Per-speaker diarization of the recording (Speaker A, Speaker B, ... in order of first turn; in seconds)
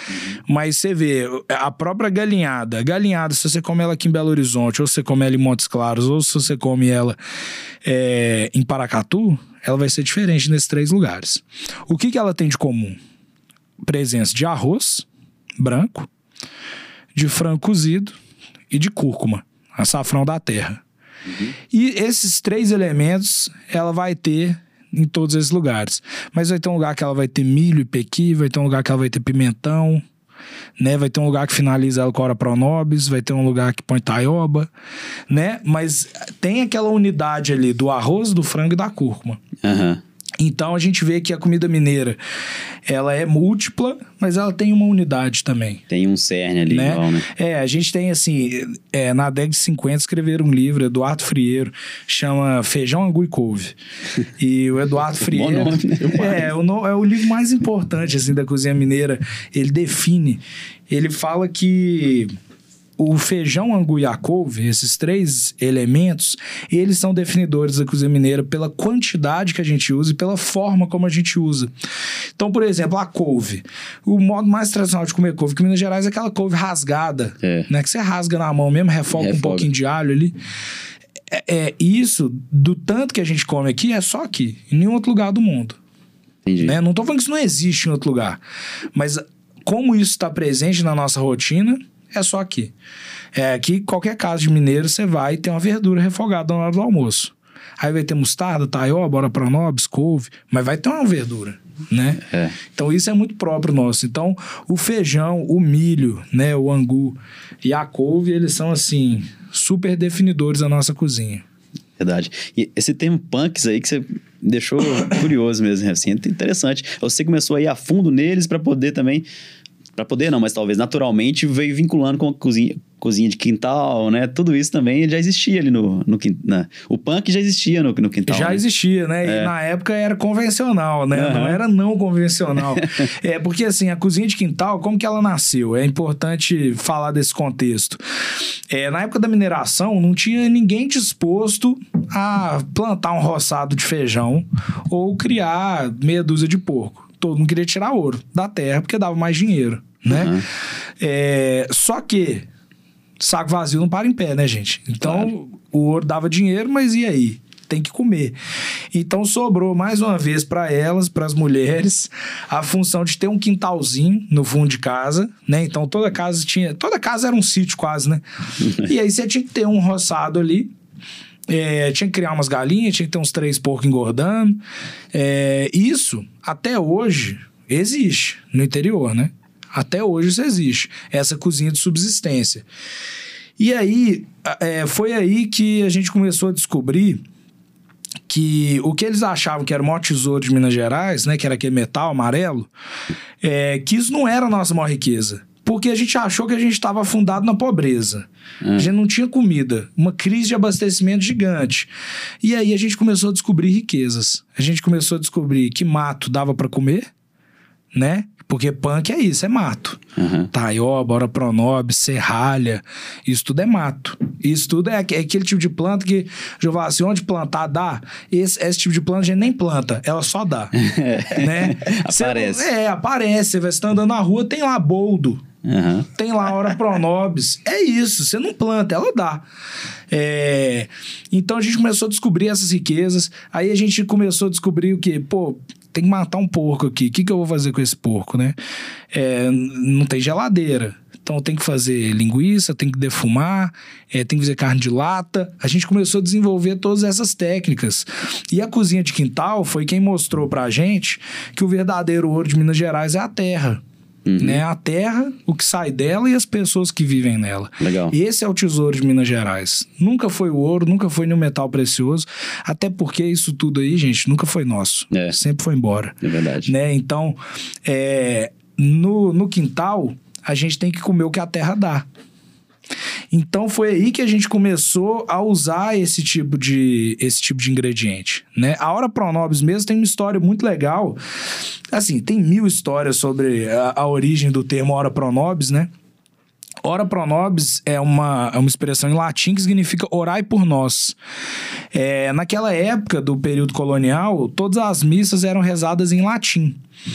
Speaker A: 0.5-7.2, 7.8-13.0, 13.8-15.1, 15.6-16.1, 17.1-18.2, 18.7-20.8, 21.7-30.0, 30.8-34.7, 35.3-39.4, 40.4-42.2, 42.9-45.8, 46.7-53.8, 54.4-62.3, 63.0-71.7, 72.4-80.4, 81.3-85.8, 86.6-88.4, 88.9-92.7, 93.3-111.4, 128.3-138.0, 138.7-150.3, 151.0-152.5, 153.2-158.4, 158.9-170.7, 171.5-174.6, 175.1-182.7, 183.6-187.2, 188.3-192.7, 193.4-201.9, 202.4-207.1, 207.9-210.0, 210.5-220.8, 221.3-225.4, 226.2-229.5, 230.1-238.6, 239.1-253.8, 254.4-272.1, 273.3-281.2, 281.9-285.9, 286.8-291.2, 291.9-296.8
Speaker B: 21.3-21.5, 39.6-40.0, 45.9-47.2, 55.2-56.5, 77.4-77.7, 79.2-79.7, 86.5-86.8, 102.3-102.6, 112.0-119.3, 120.0-128.6, 129.2-129.5, 131.1-131.6, 132.7-133.1, 150.1-150.4, 155.0-155.3, 198.6-198.9, 210.2-210.5, 220.8-222.7, 225.7-226.1, 254.2-254.6, 257.8-258.1, 266.2-266.7